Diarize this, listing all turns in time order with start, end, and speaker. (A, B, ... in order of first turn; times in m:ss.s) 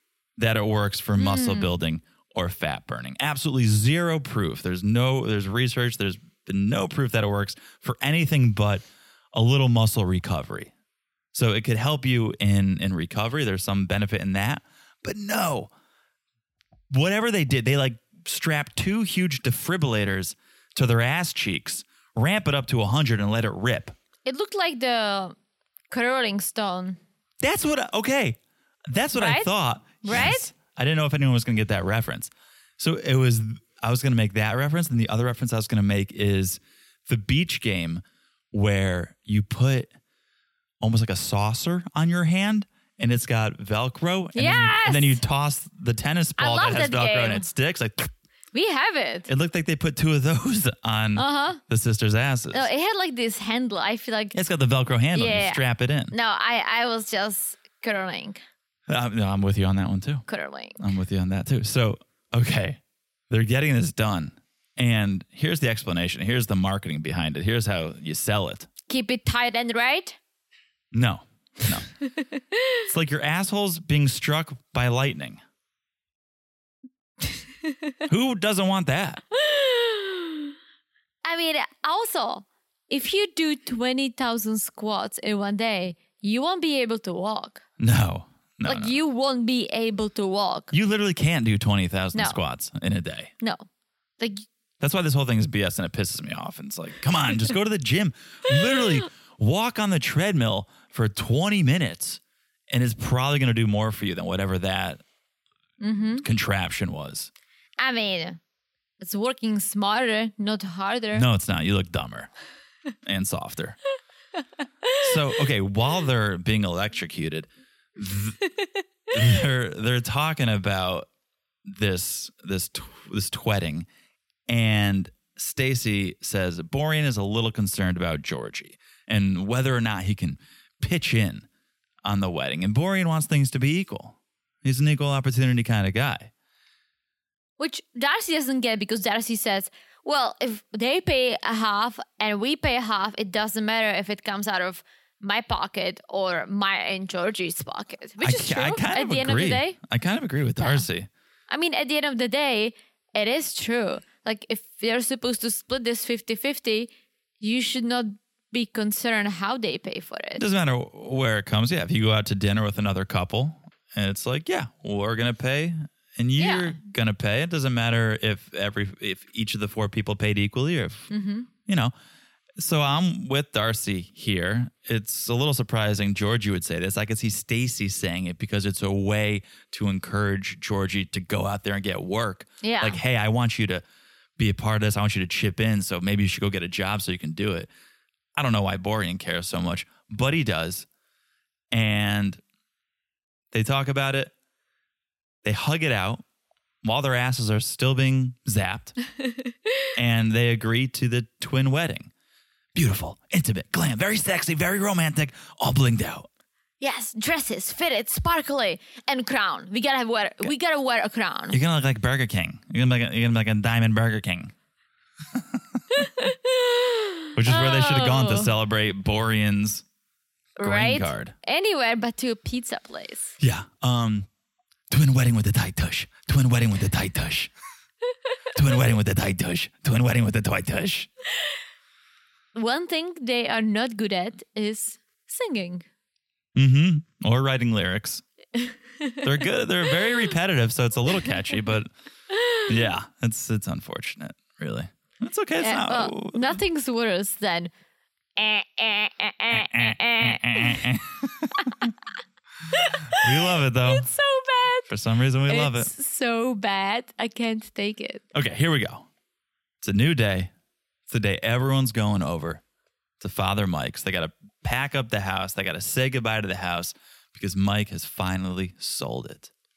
0:00.4-0:10.7 A
0:01.2-0:01.7 B
0:11.3-0:15.7 A
0:16.9-0:23.9 A
0:24.2-0:25.3 B
0:25.9-0:27.0 B
0:27.4-0:39.9 A
0:29.2-0:29.5 B
0:30.0-0:30.5 B
0:40.8-0:48.1 A
0:44.3-0:45.2 B
0:46.4-0:47.5 B
0:48.5-0:49.3 B
0:49.3-0:52.7 A
0:51.1-0:51.6 B
0:52.5-0:54.3 B
0:54.3-0:56.1 A
0:55.1-0:58.4 B
0:58.9-1:00.2 A
1:00.3-1:00.8 B
1:00.8-1:08.7 A
1:08.9-1:10.2 B
1:10.9-1:11.9 A
1:12.8-1:15.4 A
1:18.1-1:19.2 A
1:19.4-1:20.5 B
1:21.2-1:27.6 B
1:27.8-1:28.9 A
1:28.6-1:30.7 B
1:30.7-1:33.3 A
1:33.4-1:33.6 B
1:34.2-1:34.4 B
1:34.8-1:45.0 A
1:45.8-1:46.2 B
1:46.2-1:47.3 A
1:47.8-1:48.4 B
1:49.0-1:51.2 B
1:51.1-1:52.3 A
1:53.0-1:53.8 A
1:55.0-1:58.4 A
1:59.1-2:01.1 A
2:01.6-2:03.9 A
2:04.5-2:11.5 A
2:12.0-2:16.3 A
2:17.6-2:29.8 B
2:28.2-2:31.1 A
2:31.5-2:40.4 B
2:40.4-2:51.1 A
2:46.4-2:46.8 B
2:51.1-2:51.5 B
2:51.7-2:51.9 A
2:52.6-3:03.8 A
3:02.6-3:03.0 B
3:04.4-3:07.7 A
3:08.3-3:10.9 A
3:11.7-3:12.4 A
3:13.5-3:14.3 A
3:15.4-3:16.2 A
3:16.8-3:19.0 A
3:20.0-3:22.1 A
3:22.7-3:26.3 A
3:26.8-3:31.6 B
3:31.5-3:34.5 A
3:35.3-3:35.6 A
3:35.9-3:38.5 B
3:37.3-3:39.8 A
3:40.6-3:43.4 B
3:40.6-3:41.3 A
3:43.4-3:44.3 A
3:44.9-3:47.5 A
3:48.5-3:51.1 A
3:52.5-3:55.8 B
3:56.5-3:58.2 A
3:58.6-3:59.3 B
3:59.2-4:01.9 A
4:02.3-4:02.6 B
4:02.7-4:06.6 A
4:05.6-4:07.7 B
4:08.4-4:10.9 B
4:09.5-4:11.9 A
4:11.6-4:11.9 B
4:12.7-4:14.9 B
4:13.1-4:14.1 A
4:14.9-4:15.9 A
4:15.4-4:18.2 B
4:18.3-4:19.0 A
4:19.8-4:20.5 A
4:21.1-4:22.6 A
4:23.2-4:29.5 A